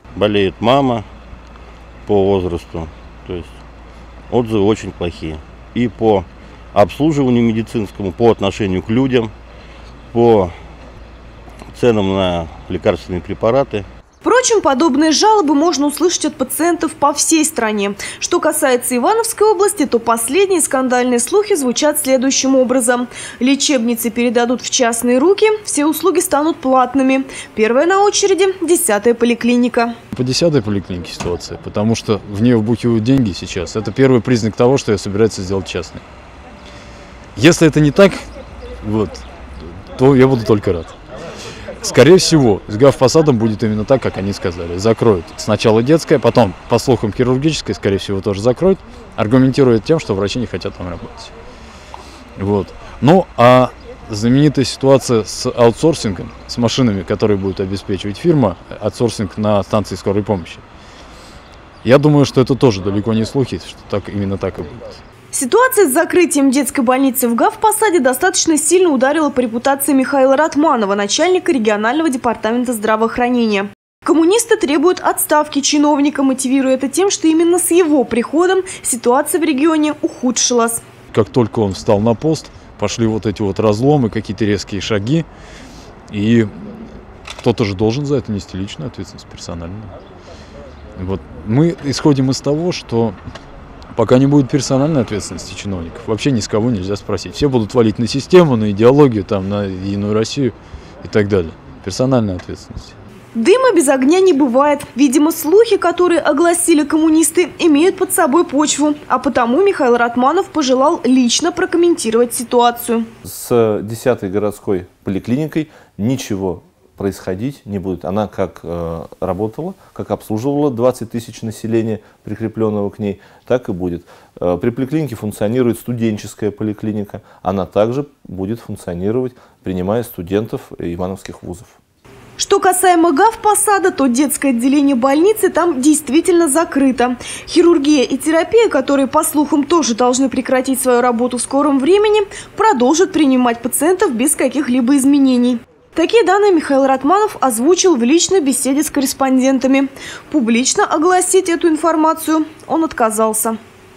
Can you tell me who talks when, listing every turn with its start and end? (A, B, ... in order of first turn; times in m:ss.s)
0:00.2-0:01.0 A
0:02.0-0:03.5 A
0:04.3-0:09.3 A
0:10.1-0:10.5 A
0:11.7-0:13.8 A
0:14.2-0:29.9 B
0:30.1-0:36.0 C
0:37.4-0:38.2 C
0:38.8-0:39.2 C
0:39.9-0:41.0 C
0:41.8-0:51.3 C
0:52.4-1:00.6 C
1:01.8-1:05.0 C
1:05.3-1:20.8 B
1:21.1-1:25.2 C
1:26.1-1:26.8 C
1:27.4-1:29.9 C
1:31.0-1:33.2 C
1:33.9-1:42.9 C
1:43.3-1:53.1 B
1:53.2-2:11.8 D
2:12.4-2:33.6 B